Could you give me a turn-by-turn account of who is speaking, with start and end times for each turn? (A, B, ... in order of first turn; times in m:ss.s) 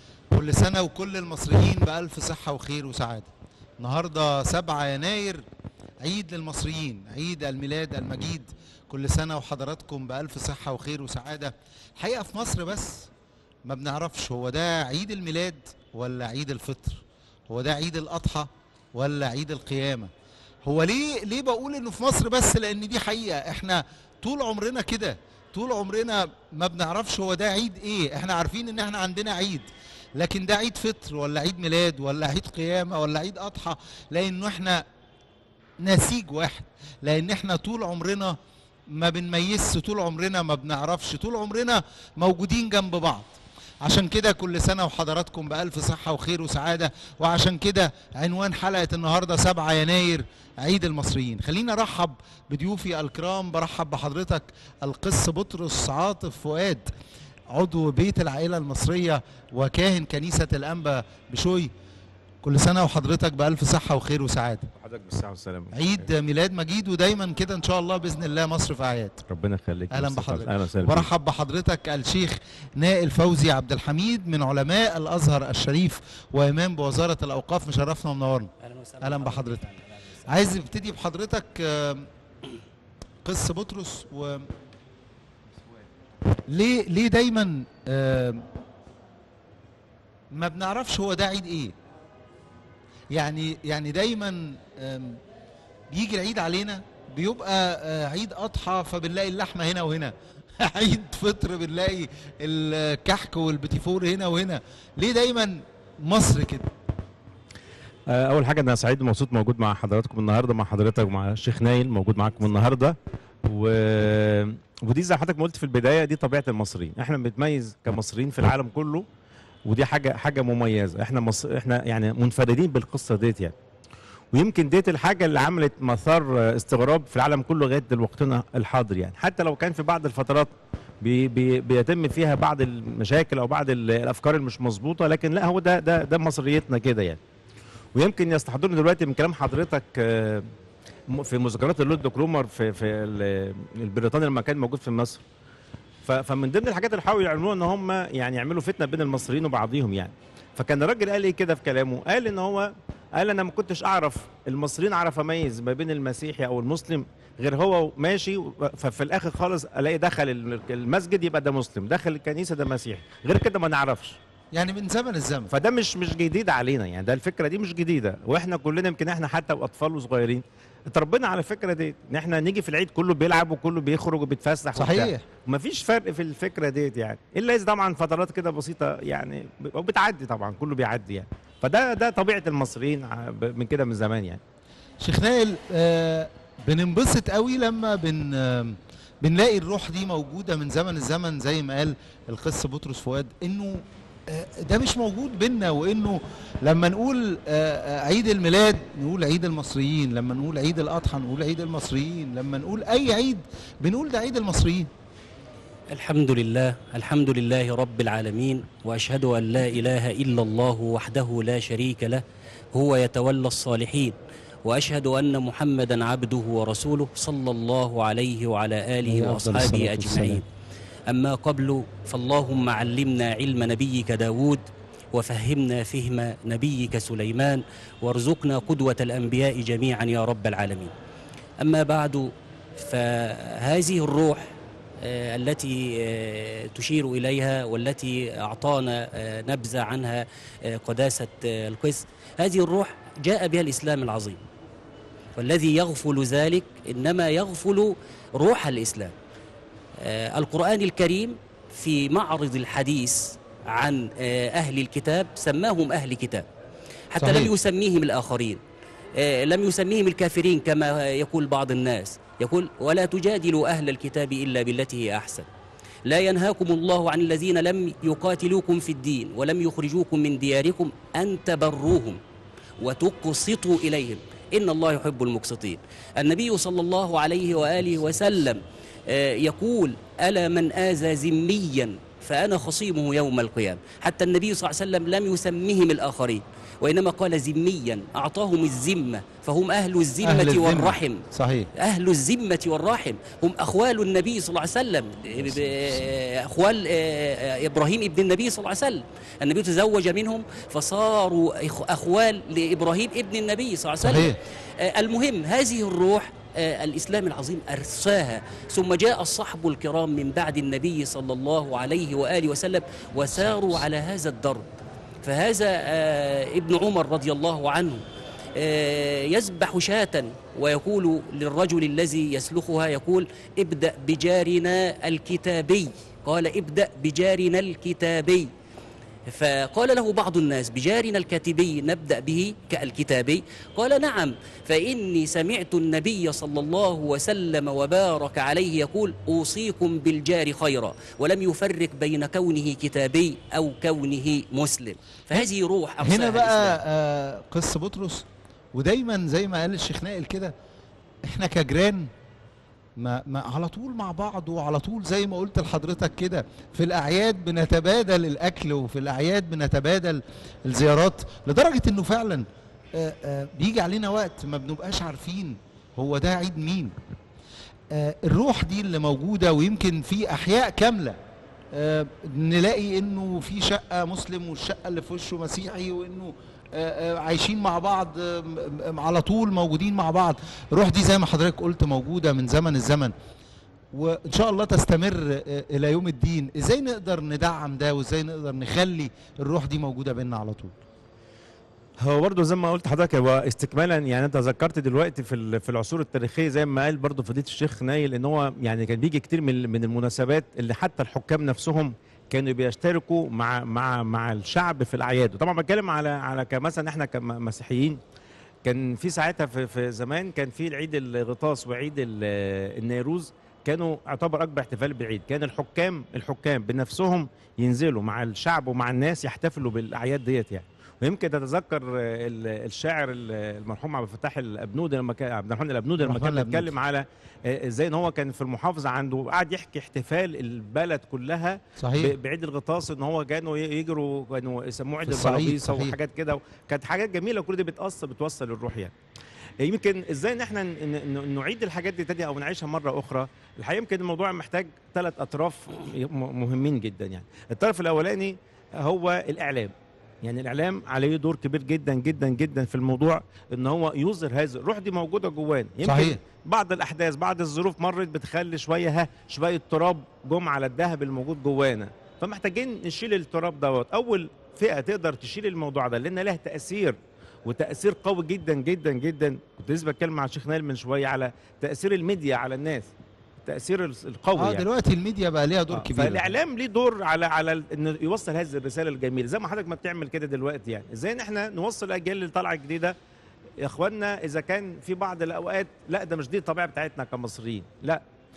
0:00.3-0:05.4 A
0:06.0-0:13.1 A
0:13.7-0:20.1 A
0:20.6-0:34.8 A
0:35.8-0:38.4 A
0:38.9-0:56.9 A
0:57.5-1:01.7 A
1:02.4-1:04.7 A
1:04.8-1:06.0 B
1:05.7-1:09.2 A
1:09.3-1:11.1 B
1:09.9-1:19.7 A
1:18.6-1:20.3 C
1:20.3-1:22.1 A
1:23.2-1:24.5 A
1:26.5-1:28.5 A
1:30.3-1:31.7 A
1:33.1-1:35.2 A
1:35.9-1:46.7 A
1:48.1-1:59.0 B
1:59.7-2:03.6 B
2:04.3-2:10.5 B
2:11.0-2:17.2 B
2:18.0-2:20.5 B
2:21.1-2:25.2 B
2:26.0-2:44.2 B
2:44.5-2:45.5 A
2:45.5-3:04.4 B
2:54.8-2:55.2 A
3:05.0-3:24.9 A
3:25.9-3:40.4 C
3:39.0-3:40.4 A
3:41.1-3:50.9 C
3:51.6-4:04.4 C
4:05.4-4:09.1 C
4:10.0-4:16.5 C
4:17.1-4:18.6 C
4:17.2-4:17.5 A
4:19.2-4:25.5 C
4:26.0-4:32.2 C
4:32.8-5:14.7 C
4:50.2-4:51.7 A
4:55.4-4:56.0 A
5:04.0-5:04.4 A
5:15.2-5:18.0 C
5:18.6-5:28.5 C
5:29.3-5:46.8 C
5:46.0-5:50.5 A
5:51.3-5:52.1 A
5:53.0-6:06.9 A
6:07.9-6:11.2 A
6:11.7-6:23.1 A
6:23.9-6:30.8 A
6:32.0-6:48.0 B
6:48.6-7:18.9 B
7:06.0-7:06.7 A
7:11.8-7:12.2 A
7:15.0-7:16.0 A
7:19.6-7:52.9 B
7:35.8-7:36.2 A
7:53.4-7:54.6 B
7:54.4-7:56.3 A
7:55.7-8:03.0 B
8:03.6-8:08.0 B